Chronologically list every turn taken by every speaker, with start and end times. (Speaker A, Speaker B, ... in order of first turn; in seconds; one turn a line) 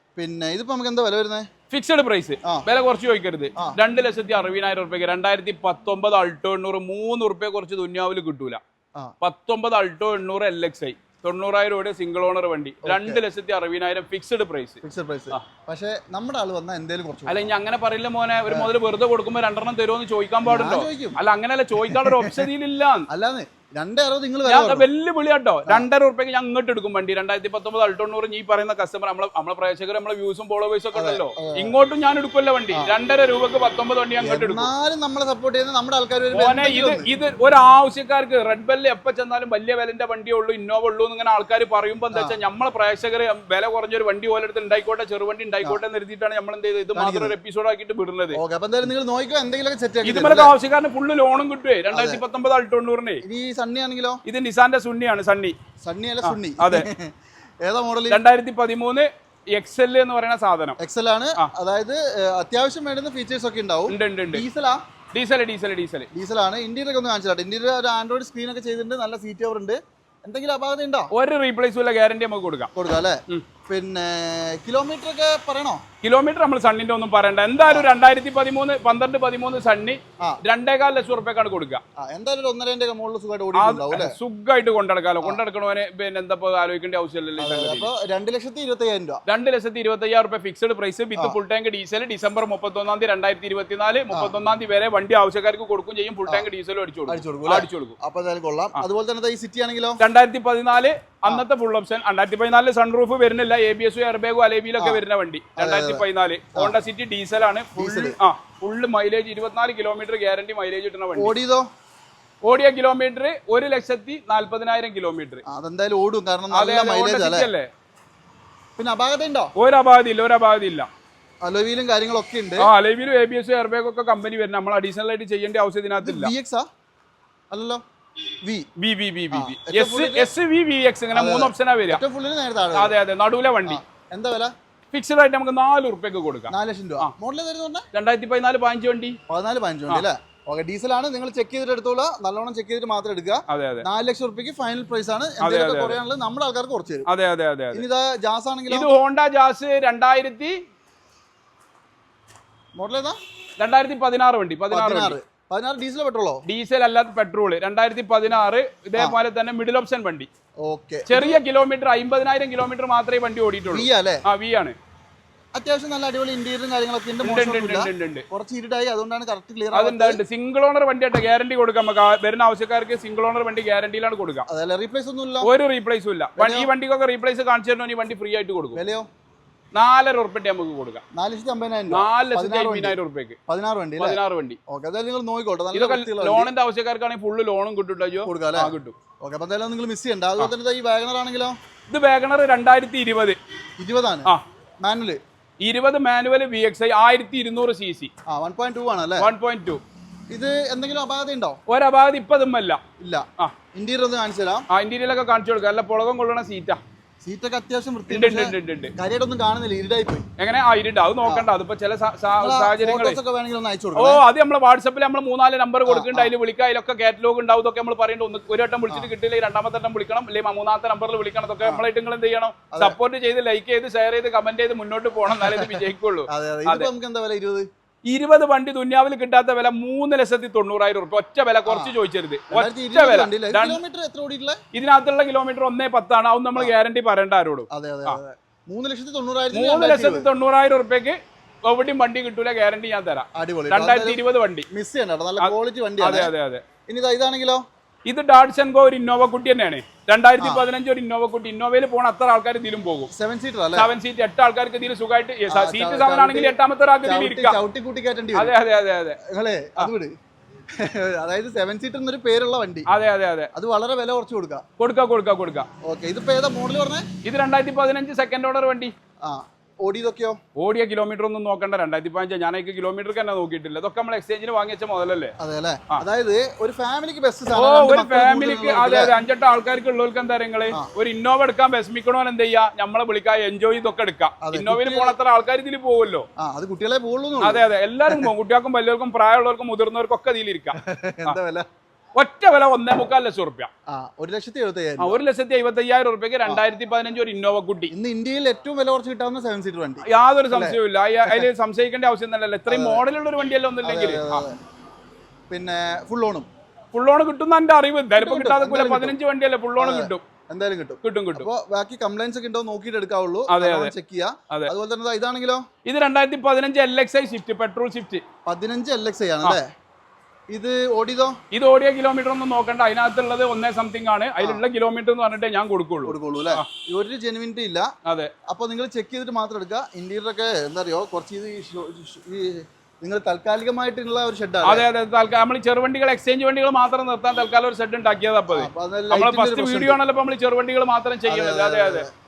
Speaker A: 0.2-1.5
Speaker B: 1.7-8.6
Speaker B: 9.2-14.8
Speaker A: 12.8-13.2
Speaker A: 14.8-17.5
Speaker B: 17.3-23.1
Speaker A: 20.4-21.2
Speaker A: 21.8-22.5
Speaker A: 23.1-24.9
Speaker B: 24.4-34.7
Speaker A: 30.9-31.7
Speaker A: 34.2-37.1
Speaker B: 36.3-48.4
Speaker A: 47.0-47.4
Speaker A: 48.3-50.5
Speaker B: 50.0-53.2
Speaker A: 51.9-52.2
Speaker A: 53.2-54.2
Speaker B: 54.2-55.5
Speaker A: 55.8-58.2
Speaker B: 56.2-56.9
Speaker B: 58.1-60.8
Speaker A: 60.8-64.8
Speaker B: 63.9-64.4
Speaker B: 65.1-66.1
Speaker A: 66.1-71.1
Speaker B: 71.1-72.7
Speaker A: 72.8-75.8
Speaker B: 76.0-81.8
Speaker A: 82.0-84.2
Speaker B: 83.5-87.9
Speaker A: 87.4-89.2
Speaker B: 89.3-98.0
Speaker A: 94.1-94.3
Speaker A: 97.1-100.0
Speaker B: 100.0-111.3
Speaker A: 105.6-106.0
Speaker A: 107.8-108.2
Speaker A: 111.1-111.7
Speaker B: 112.4-115.4
Speaker A: 115.5-117.5
Speaker B: 116.5-117.7
Speaker A: 118.8-119.5
Speaker B: 119.6-120.9
Speaker A: 121.4-122.7
Speaker B: 122.6-126.3
Speaker A: 126.0-126.7
Speaker A: 127.5-127.8
Speaker A: 128.4-128.7
Speaker B: 128.8-132.0
Speaker A: 129.3-130.3
Speaker A: 131.1-132.9
Speaker B: 132.7-133.8
Speaker A: 133.6-134.5
Speaker B: 134.9-137.1
Speaker A: 136.5-137.8
Speaker B: 137.9-139.2
Speaker A: 139.3-147.1
Speaker B: 143.5-143.8
Speaker B: 145.4-146.0
Speaker B: 147.1-147.8
Speaker A: 147.7-148.9
Speaker B: 148.7-150.6
Speaker A: 152.8-153.2
Speaker B: 153.6-155.2
Speaker A: 154.7-156.4
Speaker B: 156.4-160.3
Speaker A: 160.6-161.4
Speaker B: 161.1-164.8
Speaker A: 163.7-164.2
Speaker A: 165.5-170.2
Speaker B: 167.2-168.2
Speaker B: 169.7-174.4
Speaker A: 174.5-175.5
Speaker B: 175.4-178.8
Speaker A: 176.3-176.7
Speaker A: 178.7-179.1
Speaker B: 179.7-181.0
Speaker A: 181.1-182.9
Speaker B: 181.9-183.4
Speaker A: 183.5-186.5
Speaker B: 184.0-184.6
Speaker B: 185.7-189.0
Speaker A: 188.2-191.6
Speaker B: 191.9-193.4
Speaker A: 193.8-194.3
Speaker A: 194.8-195.2
Speaker B: 195.6-198.1
Speaker A: 198.3-199.3
Speaker B: 199.2-199.8
Speaker A: 200.3-201.6
Speaker B: 201.7-202.8
Speaker A: 203.0-204.7
Speaker B: 204.7-206.8
Speaker A: 207.2-210.2
Speaker B: 208.1-208.9
Speaker B: 210.4-213.2
Speaker A: 212.4-214.2
Speaker B: 213.9-226.9
Speaker A: 215.8-216.3
Speaker A: 222.7-223.0
Speaker A: 225.3-227.7
Speaker B: 228.1-233.8
Speaker A: 231.7-231.9
Speaker A: 232.5-234.6
Speaker B: 234.7-238.2
Speaker A: 237.7-240.3
Speaker B: 239.5-244.7
Speaker A: 243.3-246.3
Speaker B: 245.4-246.6
Speaker A: 246.9-247.6
Speaker B: 248.1-253.1
Speaker A: 250.4-250.7
Speaker A: 253.1-253.9
Speaker B: 253.7-257.6
Speaker A: 255.5-258.6
Speaker B: 258.3-259.2
Speaker A: 259.2-260.1
Speaker A: 260.7-262.9
Speaker B: 262.9-263.5
Speaker A: 263.5-264.6
Speaker B: 264.8-265.7
Speaker A: 265.8-267.1
Speaker B: 267.2-268.9
Speaker A: 269.2-270.4
Speaker B: 270.6-275.3
Speaker A: 275.4-279.2
Speaker B: 277.5-286.2
Speaker A: 284.4-285.1
Speaker A: 286.4-288.3
Speaker B: 287.4-291.4
Speaker A: 290.8-291.7
Speaker B: 292.1-293.7
Speaker A: 293.9-295.2
Speaker B: 295.0-297.9
Speaker A: 297.9-301.5
Speaker B: 300.1-304.4
Speaker A: 302.7-303.0
Speaker A: 303.8-304.6
Speaker A: 305.5-306.5
Speaker B: 306.9-310.2
Speaker A: 308.1-309.1
Speaker A: 309.8-315.6
Speaker B: 311.0-311.5
Speaker B: 313.5-313.9
Speaker B: 315.8-318.2
Speaker A: 318.5-319.7
Speaker A: 320.5-321.4
Speaker B: 321.5-326.7
Speaker A: 326.1-327.9
Speaker B: 328.1-328.3
Speaker A: 328.5-334.9
Speaker B: 334.6-342.1
Speaker A: 338.5-340.0
Speaker A: 341.2-342.1